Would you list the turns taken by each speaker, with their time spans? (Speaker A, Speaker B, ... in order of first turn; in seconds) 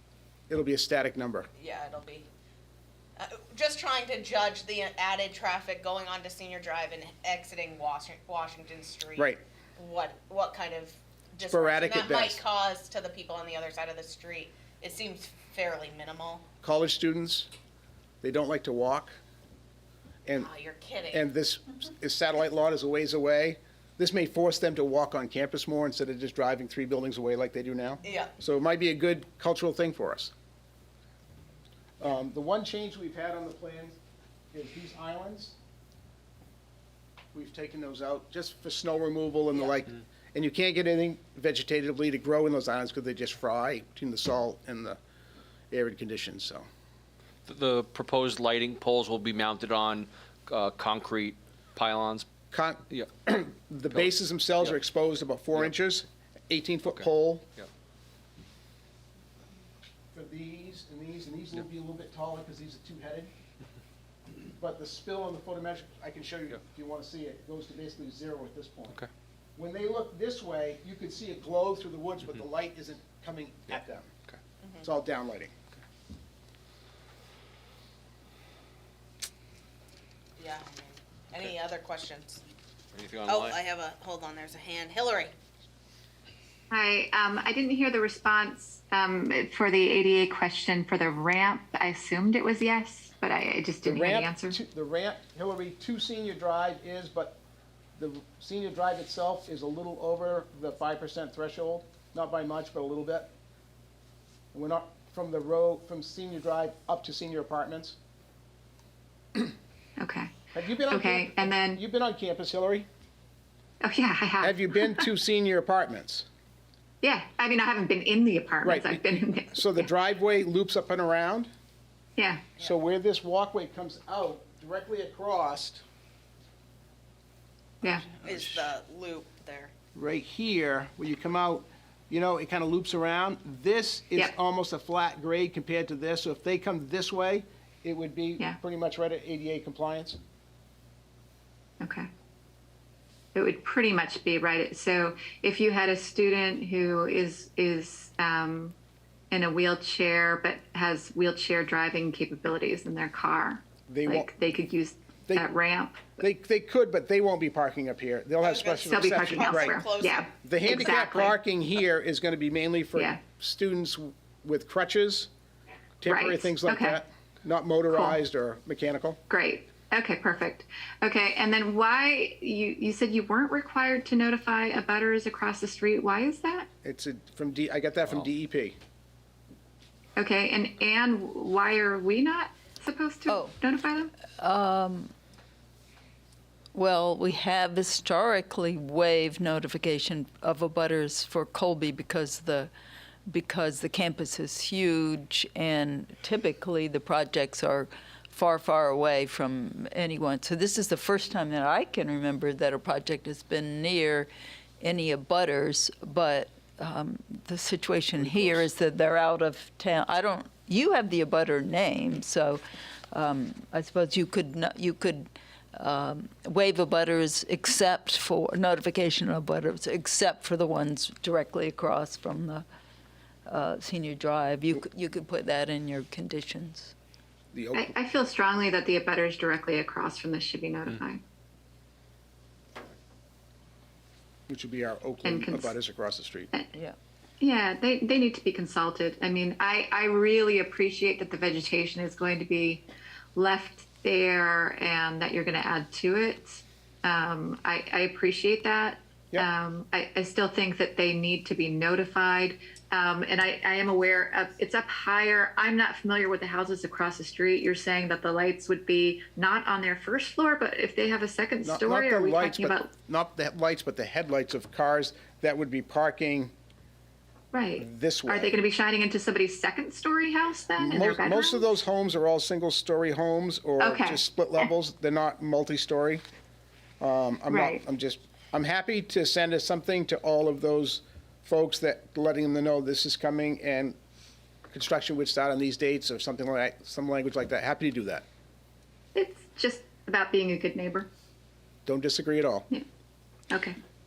Speaker A: 0.5-1.5, 9.2-9.4, 11.4-12.4, 16.6-17.5, 18.2-19.1, 21.1-30.3, 32.0-34.0, 34.5-35.6, 37.3-45.0, 45.7-46.6, 52.5-57.5, 60.1-63.3, 64.6-69.0, 69.5-74.1, 74.8-75.5, 93.8-97.4, 98.0-103.3, 104.5-108.0, 110.5-112.9, 114.4-116.3, 118.6-121.5, 122.6-125.8, 127.8-128.7, 129.9-140.2, 153.9-154.3, 156.2-159.8, 160.4-165.3, 166.0-169.2, 176.8-178.8, 208.2-208.7, 227.5-227.9, 234.5-236.5, 261.6-266.5, 267.8-268.6, 270.8-276.2, 277.0-284.0, 284.7-288.2, 291.9-292.7
Speaker B: 1.6-2.3, 3.2-16.4, 20.3-21.3, 28.0-28.3, 74.6-74.9, 80.4-82.4, 83.2-85.3, 128.1-129.7, 158.4-160.3
Speaker C: 47.5-52.3, 53.9-54.7, 56.9-57.7, 82.9-83.6
Speaker D: 86.7-94.6, 110.0-110.3, 110.8-111.8, 113.8-115.1, 117.0-119.8, 122.2-122.5, 127.8-128.1, 141.8-142.1, 143.3-148.7, 149.3-156.2, 158.9-161.3, 162.9-163.2, 166.1-167.0, 167.9-168.2, 169.3-176.7, 180.2-184.1, 227.7-231.2, 235.2-235.7, 237.4-242.8, 243.3-262.9, 267.5-271.8, 273.8-274.6, 277.5-277.8, 289.1-291.1, 293.5-293.7
Speaker E: 183.3-183.5, 184.4-185.1, 186.7-192.7, 193.3-204.3, 204.8-212.6, 213.1-222.6, 223.5-226.9